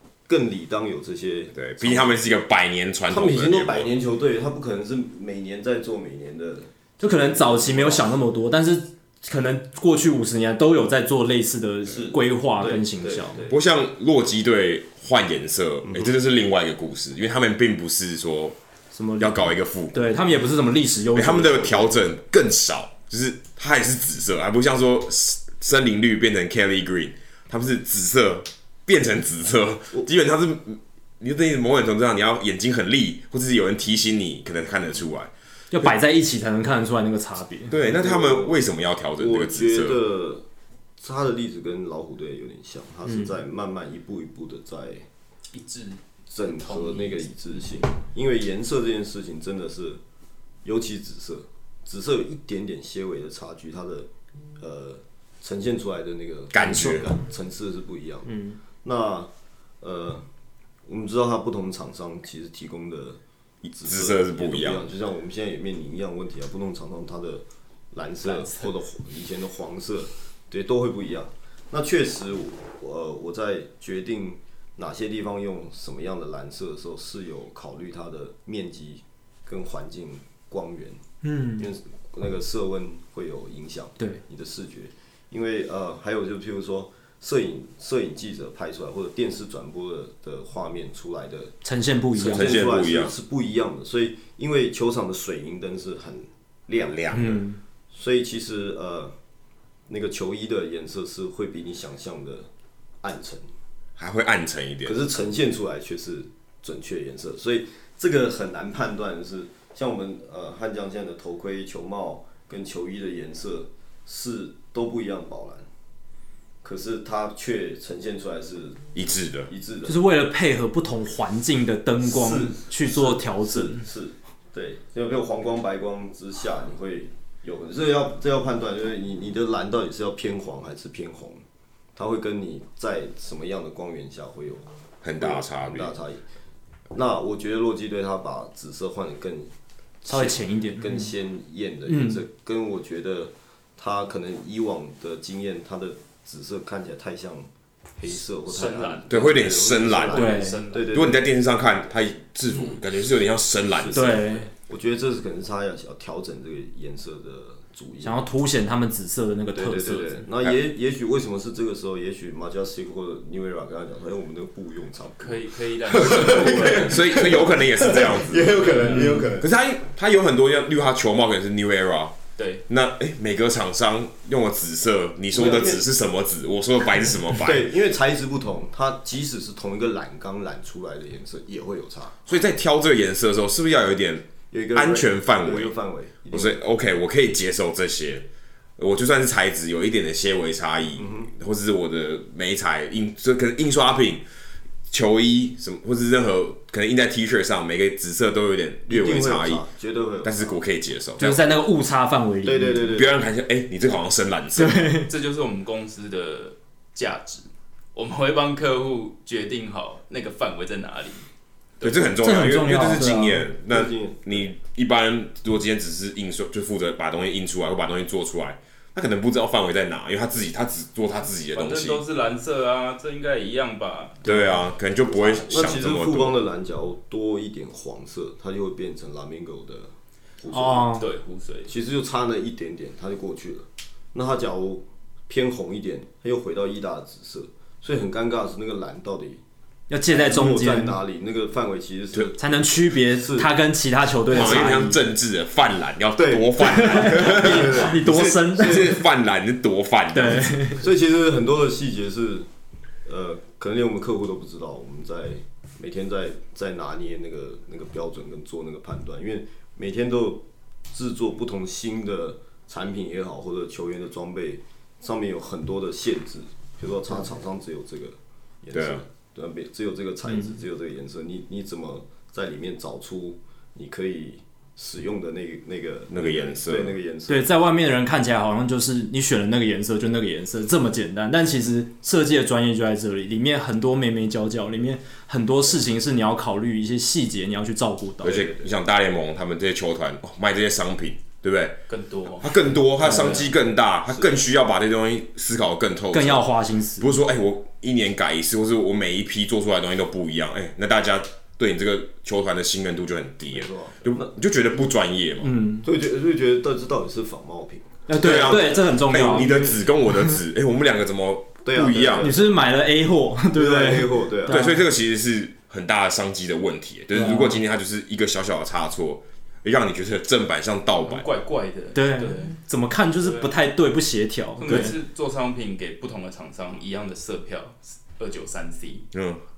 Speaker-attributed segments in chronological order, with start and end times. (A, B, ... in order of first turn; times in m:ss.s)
0:00.3-0:02.2 A
0:01.5-0:03.9 B
0:03.1-0:08.1 A
0:07.0-0:13.4 C
0:11.9-0:13.6 A
0:13.5-0:18.6 B
0:18.9-0:22.0 C
0:19.2-0:20.0 B
0:21.1-0:35.3 B
0:35.7-0:37.8 C
0:37.7-0:40.0 B
0:37.8-0:38.6 A
0:39.2-0:40.4 A
0:41.0-0:45.1 A
0:45.5-0:47.2 D
0:46.3-0:50.0 A
0:50.6-1:00.2 A
0:56.5-0:57.1 B
0:58.3-0:58.6 C
1:00.8-1:21.0 A
1:03.8-1:04.9 B
1:21.2-1:21.7 C
1:21.6-1:31.5 A
1:31.6-1:32.7 C
1:32.1-1:37.3 A
1:32.2-1:33.1 B
1:36.8-1:37.4 B
1:37.1-1:37.6 C
1:37.9-1:39.1 A
1:39.9-1:42.5 A
1:43.0-1:43.5 A
1:44.0-1:45.0 B
1:44.8-1:55.7 A
1:56.6-1:58.9 A
1:58.9-1:59.5 B
1:59.5-2:00.0 A
1:59.8-2:03.8 C
2:02.0-2:11.4 A
2:11.9-2:16.2 A
2:15.0-2:15.9 B
2:16.9-2:19.5 A
2:20.0-2:31.3 A
2:20.0-2:21.0 C
2:21.9-2:22.2 C
2:28.5-2:29.1 D
2:29.1-2:30.3 B
2:30.0-2:30.9 D
2:30.1-2:30.6 C
2:30.9-2:34.2 B
2:33.7-2:38.2 A
2:33.9-2:34.5 C
2:38.0-2:40.3 C
2:39.5-2:49.5 A
2:45.2-2:47.2 D
2:46.2-2:57.7 B
2:48.5-2:49.1 D
2:48.9-2:49.3 C
2:52.4-2:52.6 D
2:55.3-2:55.8 A
2:57.4-3:02.2 A
3:02.3-3:05.7 B
3:04.5-3:06.6 A
3:06.3-3:08.2 B
3:08.8-3:14.2 B
3:11.0-3:11.3 A
3:14.9-3:19.6 B
3:18.9-3:20.6 A
3:20.2-3:21.4 B
3:21.2-3:22.8 C
3:22.4-3:23.1 A
3:22.9-3:24.9 B
3:24.6-3:25.1 C
3:25.0-3:31.2 D
3:31.8-3:32.1 D
3:31.8-3:42.0 B
3:32.2-3:33.5 C
3:33.5-3:34.5 A
3:41.5-3:44.4 D
3:44.2-3:46.4 B
3:44.2-3:44.5 C
3:45.3-3:50.9 A
3:50.5-3:51.0 C
3:50.9-3:51.7 D
3:51.7-3:59.4 A
3:59.9-4:01.0 C
4:00.1-4:03.5 A
4:02.4-4:05.0 C
4:04.3-4:10.7 B
4:06.2-4:08.9 A
4:06.6-4:09.0 C
4:10.1-4:10.8 C
4:10.8-4:12.5 A
4:13.0-4:37.5 A
4:28.7-4:29.0 B
4:36.1-4:37.0 B
4:37.3-4:48.5 C
4:48.2-4:51.8 B
4:48.3-4:48.7 A
4:51.9-4:53.5 D
4:52.4-5:05.6 B
4:53.0-4:53.4 C
4:54.1-4:54.4 A
4:56.1-4:57.1 C
5:03.5-5:04.3 A
5:05.4-5:05.8 C
5:05.8-5:08.6 A
5:08.1-5:09.6 C
5:08.2-5:12.3 B
5:11.6-5:12.5 A
5:12.1-5:14.8 C
5:13.5-5:14.7 A
5:14.5-5:21.3 B
5:17.1-5:17.6 C
5:21.0-5:22.5 D
5:21.9-5:24.9 C
5:23.2-5:23.5 D
5:24.6-5:29.1 D
5:24.7-5:24.9 B
5:29.1-5:29.4 B